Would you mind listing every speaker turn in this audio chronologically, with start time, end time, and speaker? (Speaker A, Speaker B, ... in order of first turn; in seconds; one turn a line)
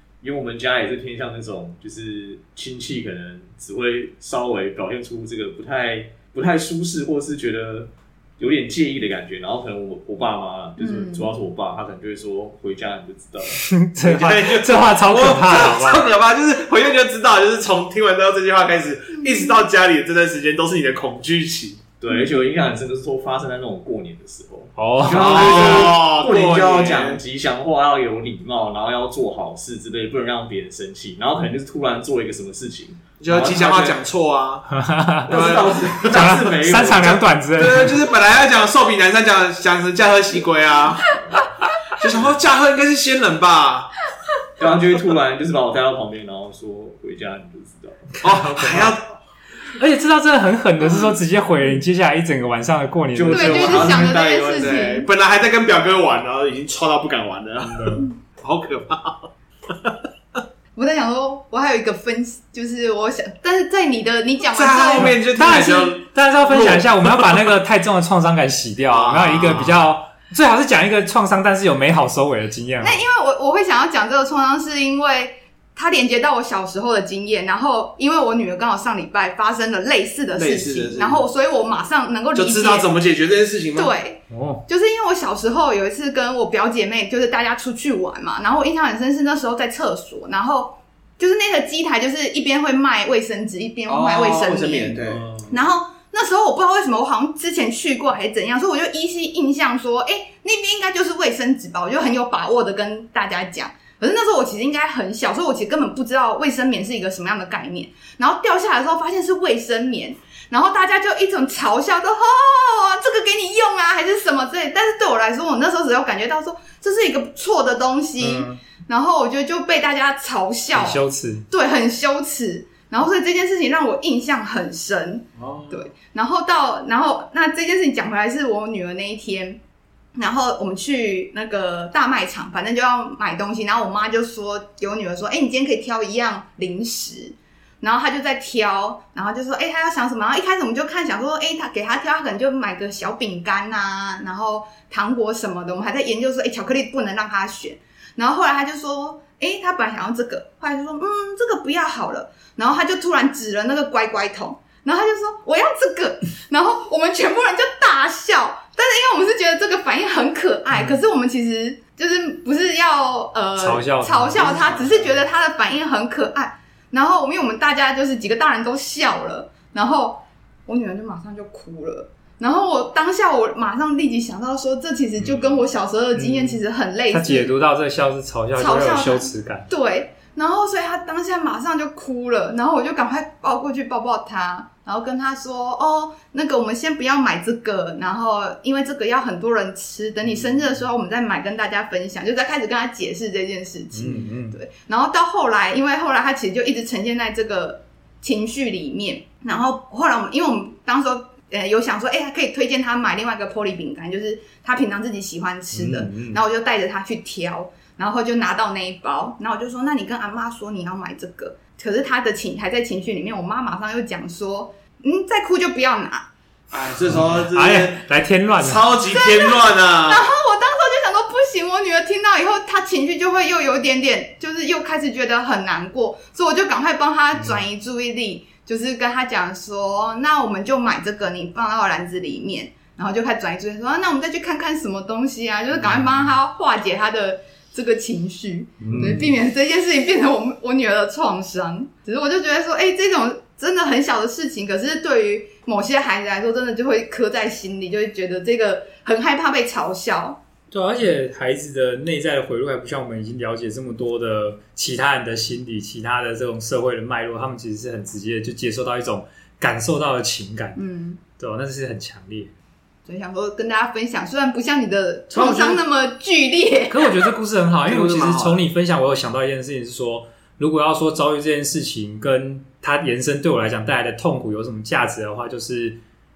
Speaker A: 0.2-13.6
Speaker B: 10.8-11.3
Speaker C: 13.6-16.1
Speaker D: 14.0-21.8
Speaker A: 22.0-34.0
Speaker C: 24.8-25.9
Speaker D: 25.1-27.2
Speaker D: 33.2-41.2
Speaker C: 34.7-38.1
Speaker A: 35.3-37.2
Speaker D: 41.9-43.9
Speaker A: 44.6-48.2
Speaker D: 48.2-49.1
Speaker C: 48.2-49.0
Speaker C: 49.7-54.0
Speaker A: 53.1-54.2
Speaker B: 53.3-55.1
Speaker D: 53.7-60.0
Speaker C: 57.7-58.0
Speaker B: 60.8-65.2
Speaker D: 64.5-67.4
Speaker C: 65.0-73.0
Speaker D: 68.9-69.8
Speaker B: 72.8-82.9
Speaker D: 80.4-81.2
Speaker D: 82.3-83.9
Speaker B: 83.8-129.6
Speaker C: 84.3-84.6
Speaker D: 93.9-95.3
Speaker C: 95.1-95.5
Speaker C: 118.2-118.6
Speaker C: 120.7-121.5
Speaker D: 125.4-125.9
Speaker B: 130.2-177.5
Speaker C: 160.7-160.9
Speaker C: 163.6-164.8
Speaker D: 164.4-165.1
Speaker C: 175.2-175.6
Speaker C: 176.1-179.7
Speaker B: 178.5-216.3
Speaker C: 193.9-194.6
Speaker C: 205.7-206.4
Speaker D: 216.7-218.0
Speaker C: 217.1-218.9
Speaker D: 218.6-220.2
Speaker B: 219.1-250.4
Speaker C: 227.3-227.6
Speaker C: 235.8-236.1
Speaker C: 238.8-239.3
Speaker C: 250.7-260.8
Speaker B: 260.8-261.2
Speaker C: 261.4-262.5
Speaker B: 263.1-267.2
Speaker C: 265.3-265.8
Speaker C: 266.9-276.0
Speaker D: 267.8-268.6